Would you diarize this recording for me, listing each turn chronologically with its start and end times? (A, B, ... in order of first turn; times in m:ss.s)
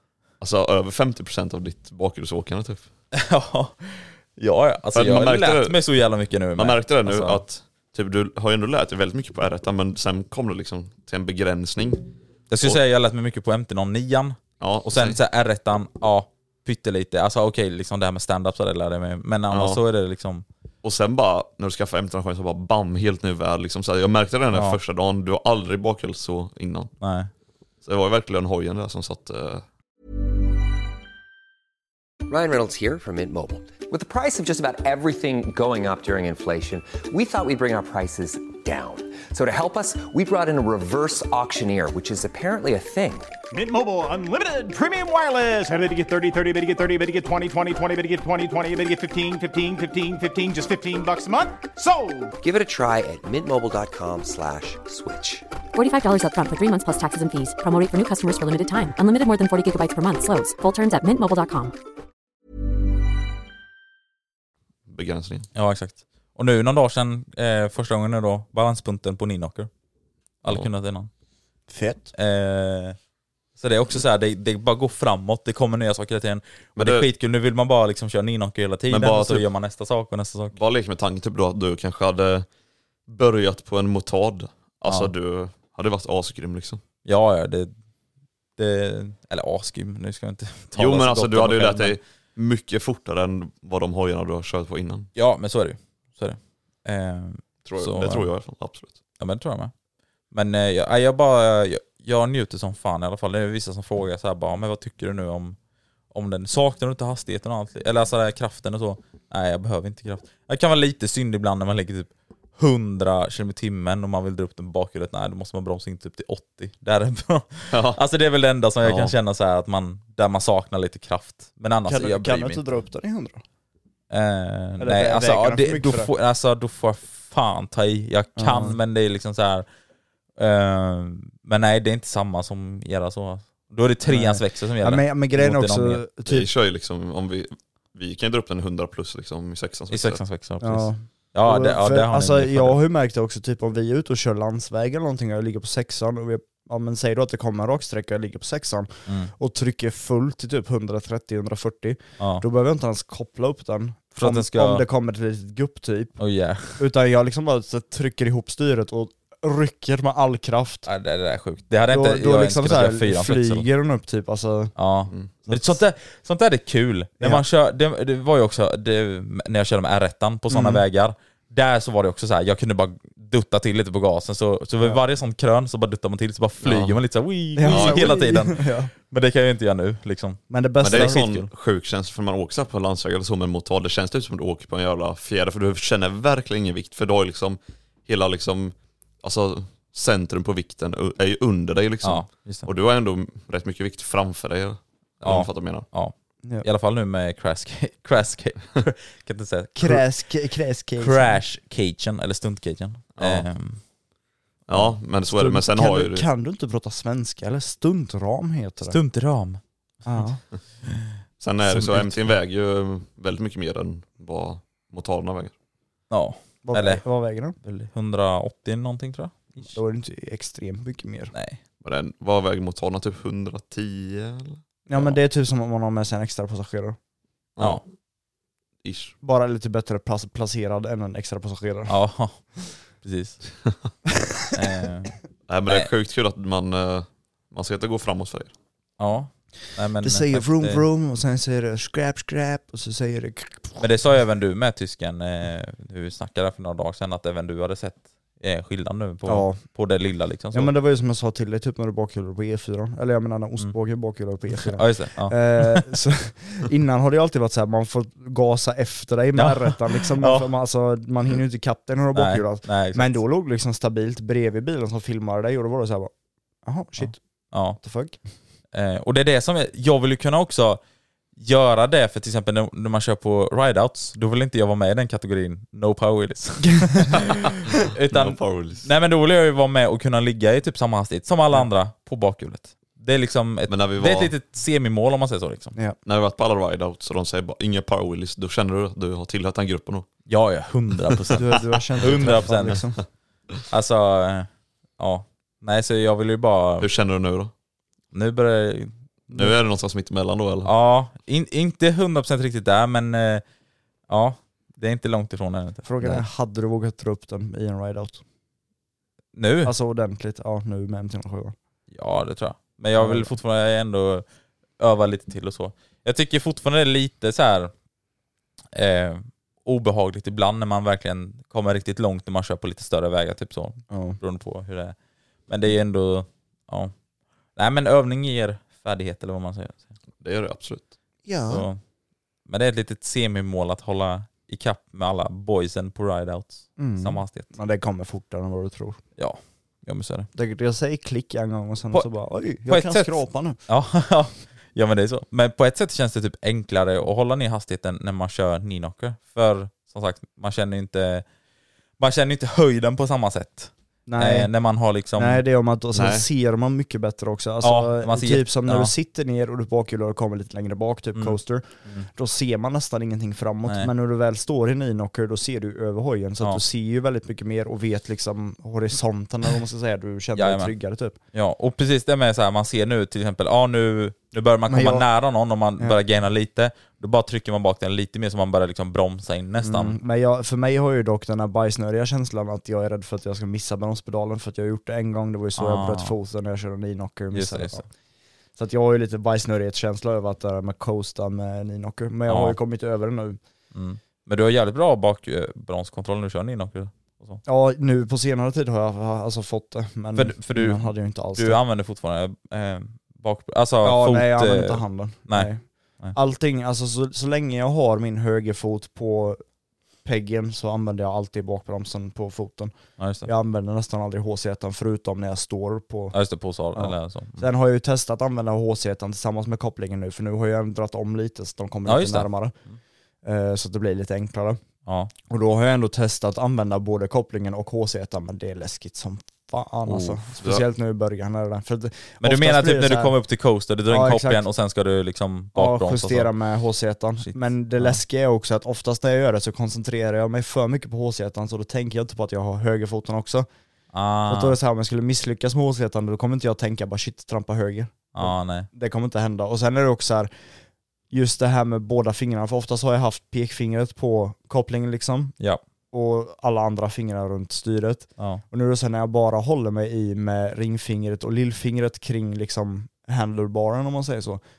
0:00.4-0:02.8 A
0:03.1-0:07.4 B
0:04.9-0:05.8 A
0:06.6-0:12.8 A
0:12.5-0:20.4 B
0:14.6-0:15.2 A
0:19.5-0:19.8 A
0:20.8-0:26.9 A
0:27.0-0:27.3 B
0:27.8-0:29.6 A
0:32.3-0:43.3 C
0:43.5-0:52.3 D
0:52.4-0:55.4 C
0:55.7-1:01.7 E
1:04.9-1:05.5 A
1:05.5-1:09.7 B
1:10.4-1:11.1 B
1:11.7-1:12.1 F
1:12.1-1:13.0 B
1:13.6-1:20.6 B
1:16.8-1:17.1 A
1:18.9-1:19.5 A
1:20.5-1:22.5 A
1:23.1-1:26.8 A
1:24.9-1:25.1 B
1:27.0-1:27.7 B
1:28.6-1:32.0 B
1:30.8-1:35.1 A
1:35.1-1:38.3 B
1:37.6-1:39.0 A
1:39.2-1:39.7 B
1:40.3-1:45.6 B
1:46.1-2:02.6 B
1:57.7-1:58.0 A
1:58.8-1:59.1 A
2:01.9-2:03.4 F
2:04.1-2:09.6 B
2:04.8-2:06.1 F
2:08.4-2:08.8 F
2:10.4-2:16.0 B
2:14.1-2:16.5 F
2:16.2-2:20.2 A
2:19.9-2:22.8 B
2:20.6-2:36.2 F
2:29.0-2:29.3 B
2:32.2-2:32.4 B
2:34.2-2:34.8 B
2:36.2-2:36.8 B
2:36.8-2:40.8 F
2:40.8-2:43.7 B
2:41.9-2:44.7 F
2:44.8-3:01.5 B
2:45.4-2:45.8 F
2:50.5-2:50.8 F
2:56.6-2:57.0 A
2:57.6-2:58.9 F
2:57.6-2:58.2 A
3:00.5-3:01.3 F
3:00.8-3:15.8 A
3:12.0-3:12.7 B
3:15.2-3:20.0 B
3:19.8-3:21.4 F
3:21.0-3:23.8 B
3:23.2-3:23.5 A
3:24.7-3:26.3 A
3:25.3-3:29.0 F
3:28.8-3:30.2 B
3:30.0-3:30.4 F
3:31.4-3:35.5 A
3:31.6-3:32.3 B
3:36.1-3:37.0 B
3:36.6-3:37.6 F
3:37.6-3:39.8 B
3:39.7-3:41.3 F
3:41.3-3:41.6 B
3:41.8-3:44.6 A
3:44.9-3:47.0 F
3:44.9-3:45.2 B
3:47.6-3:47.8 A
3:48.8-3:49.1 A
3:49.2-3:52.0 F
3:51.9-3:53.4 B
3:54.5-3:55.1 B
3:55.5-3:58.5 A
3:59.0-4:00.8 B
4:00.0-4:03.8 F
4:03.8-4:10.7 B
4:09.2-4:09.6 F
4:10.5-4:26.1 F
4:14.6-4:15.9 B
4:19.4-4:20.5 B
4:22.1-4:23.2 B
4:26.6-4:27.2 F
4:27.0-4:27.8 B
4:27.8-4:28.2 F
4:28.7-4:30.8 B
4:31.4-4:45.8 B
4:36.8-4:37.0 F
4:38.1-4:38.9 A
4:43.7-4:44.3 A
4:46.0-4:50.1 A
4:50.3-4:51.5 B
4:51.3-4:53.0 F
4:52.0-4:52.8 B
4:53.7-4:56.9 B
4:56.8-4:57.5 A
4:58.1-4:58.9 B
4:59.3-5:00.7 A
5:00.6-5:03.4 B
5:04.1-5:06.2 B
5:05.8-5:08.2 F
5:09.3-5:09.7 B
5:09.6-5:11.5 F
5:11.9-5:14.2 B
5:13.0-5:13.3 F
5:14.8-5:17.7 B
5:18.7-5:24.9 B
5:23.9-5:24.2 F
5:25.5-5:26.9 B
5:27.6-5:29.9 B
5:30.2-5:30.9 A
5:31.2-5:31.6 F
5:31.5-5:31.8 B
5:32.5-5:37.5 B
5:36.8-5:39.0 F
5:39.2-5:40.3 B
5:40.3-5:43.6 F
5:42.7-5:51.2 B
5:52.0-5:55.4 B
5:54.0-5:54.5 F
5:55.2-6:11.2 F
5:55.9-5:56.2 A
5:57.6-5:58.9 B
6:01.2-6:02.1 B
6:10.3-6:10.7 B
6:11.3-6:20.0 B
6:14.7-6:15.0 F
6:19.6-6:27.9 F
6:25.6-6:26.1 B
6:27.3-6:27.8 B
6:28.6-6:33.4 F
6:32.3-6:32.6 B
6:33.7-6:37.4 B
6:37.4-6:41.6 F
6:40.1-6:46.1 B
6:43.8-6:49.4 F
6:50.0-6:52.7 F
6:53.0-6:53.3 B
6:53.2-6:56.1 F
6:56.1-6:57.4 B
6:56.7-7:02.5 F
7:01.8-7:02.8 B
7:03.2-7:04.6 F
7:04.8-7:05.1 B
7:05.3-7:13.2 F
7:10.0-7:10.6 A
7:12.2-7:16.3 B
7:13.9-7:14.4 F
7:15.6-7:23.5 F
7:17.2-7:18.0 B
7:23.9-7:24.6 B
7:24.3-7:30.3 F
7:28.1-7:28.7 B
7:31.1-7:35.4 F
7:35.9-7:44.4 F
7:38.2-7:38.4 B